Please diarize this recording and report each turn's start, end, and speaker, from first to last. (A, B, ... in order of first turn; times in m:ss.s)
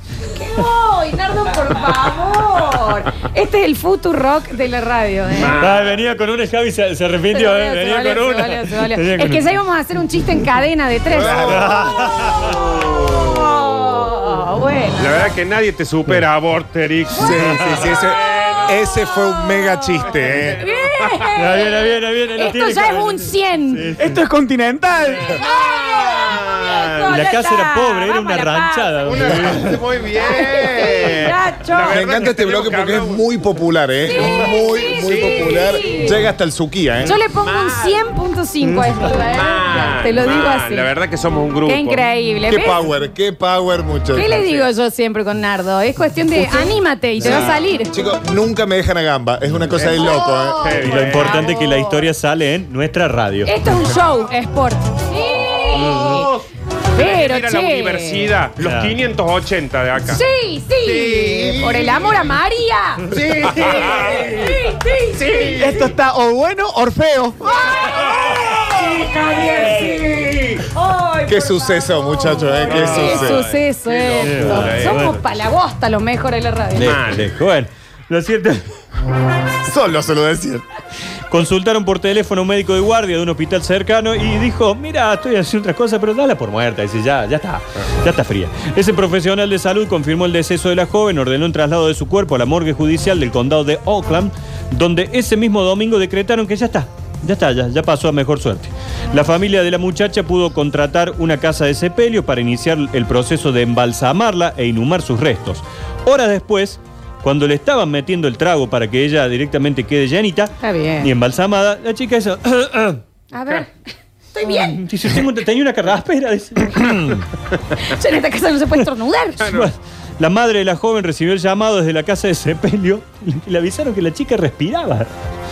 0:00.2-0:05.6 A
0:05.3-0:06.0 B
0:05.6-0:09.6 C
0:07.3-0:12.0 A
0:11.1-0:12.0 D
0:11.4-0:12.6 C
0:12.6-0:13.4 B
0:13.0-0:15.3 A
0:15.0-0:18.8 B
0:17.1-0:20.7 D
0:17.4-0:17.9 C
0:18.3-0:20.0 A
0:20.0-0:21.3 B
0:20.6-0:23.9 A
0:21.3-0:24.2 C
0:24.0-0:25.3 E
0:25.3-0:29.6 A
0:25.3-0:27.1 B
0:27.1-0:29.8 C
0:29.0-0:33.2 B
0:30.2-0:32.0 A
0:31.9-0:37.2 D
0:34.0-0:36.2 A
0:34.2-0:36.2 B
0:37.0-0:38.1 B
0:37.0-0:40.9 A
0:39.0-0:42.0 B
0:41.6-0:42.8 A
0:42.5-0:44.4 D
0:44.1-0:47.9 A
0:44.2-0:44.7 B
0:47.2-0:50.8 D
0:47.2-0:47.6 B
0:49.7-0:51.5 B
0:49.9-0:52.1 A
0:50.8-0:53.6 C
0:53.4-0:56.3 A
0:55.2-1:00.2 B
0:56.9-0:58.3 A
0:58.6-0:59.0 C
1:00.0-1:05.6 A
1:00.8-1:02.2 B
1:03.1-1:05.9 B
1:05.5-1:07.4 E
1:07.5-1:08.0 A
1:07.8-1:10.6 B
1:08.8-1:10.0 A
1:10.6-1:17.0 A
1:11.2-1:13.5 D
1:12.6-1:15.1 B
1:14.2-1:15.2 C
1:16.7-1:18.7 C
1:16.8-1:17.3 B
1:19.6-1:20.6 D
1:21.3-1:53.0 C
1:50.6-1:51.1 A
1:53.3-1:53.8 A
1:54.3-1:54.8 A
1:54.4-1:57.2 C
1:56.8-1:57.6 B
1:57.8-1:59.4 A
1:59.4-2:05.1 C
1:59.4-1:59.7 B